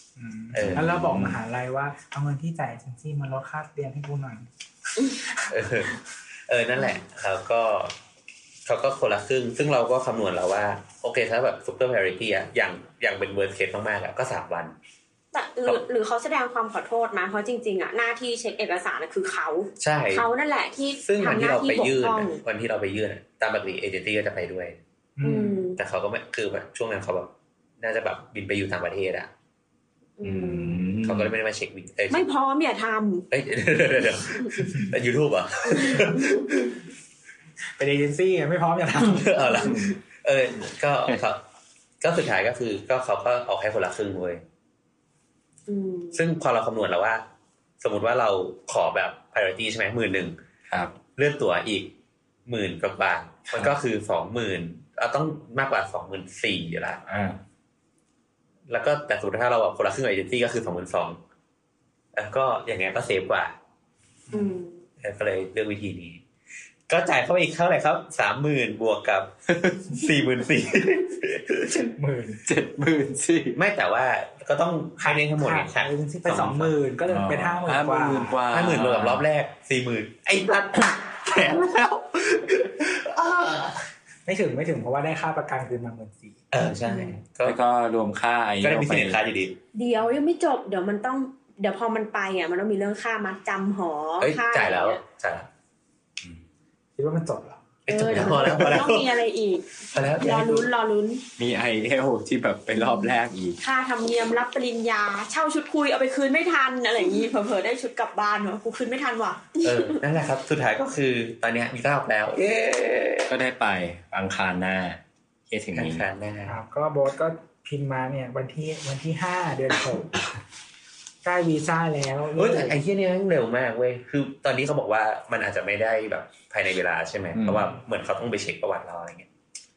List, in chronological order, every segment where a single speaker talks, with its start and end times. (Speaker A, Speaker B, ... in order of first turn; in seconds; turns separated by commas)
Speaker A: 0.2-4.5, Speaker B: 0.5-1.0, Speaker C: 0.6-1.4, Speaker B: 5.5-6.0, Speaker B: 6.5-7.9, Speaker B: 8.7-14.8, Speaker D: 15.3-22.4, Speaker B: 19.8-20.2, Speaker B: 21.0-24.8, Speaker A: 25.2-25.6, Speaker D: 25.2-25.8, Speaker B: 25.8-29.3, Speaker D: 30.2-30.8, Speaker C: 30.2-31.3, Speaker B: 31.0-32.2, Speaker D: 32.1-33.3, Speaker B: 33.3-36.8, Speaker A: 37.8-39.3, Speaker B: 39.0-41.4, Speaker D: 39.4-39.9, Speaker C: 39.6-39.9, Speaker B: 42.0-44.4, Speaker D: 45.7-46.2, Speaker B: 46.1-47.2, Speaker B: 47.8-50.4, Speaker C: 50.7-50.9, Speaker B: 51.1-51.9, Speaker B: 52.5-57.0, Speaker C: 57.1-57.4, Speaker B: 58.7-61.2, Speaker B: 62.1-63.6, Speaker D: 64.3-64.8, Speaker B: 65.0-66.2, Speaker B: 66.9-69.3, Speaker C: 69.5-69.9, Speaker B: 69.9-71.9, Speaker A: 72.0-72.4, Speaker C: 72.5-73.6, Speaker B: 73.5-76.8, Speaker A: 75.0-78.3, Speaker C: 77.1-79.2, Speaker B: 78.5-83.8, Speaker A: 84.2-86.4, Speaker B: 86.5-87.6, Speaker D: 86.9-87.1, Speaker C: 87.4-89.2, Speaker B: 88.6-89.6, Speaker D: 89.7-95.0, Speaker B: 94.2-95.5, Speaker A: 97.0-97.6, Speaker B: 97.9-99.1, Speaker D: 97.9-101.2, Speaker B: 99.9-100.7, Speaker C: 101.4-103.6, Speaker D: 102.8-110.0, Speaker B: 109.6-113.3, Speaker C: 113.3-116.0, Speaker B: 115.7-116.6, Speaker A: 116.5-120.2, Speaker A: 121.2-122.8, Speaker B: 122.3-129.3, Speaker C: 127.3-127.6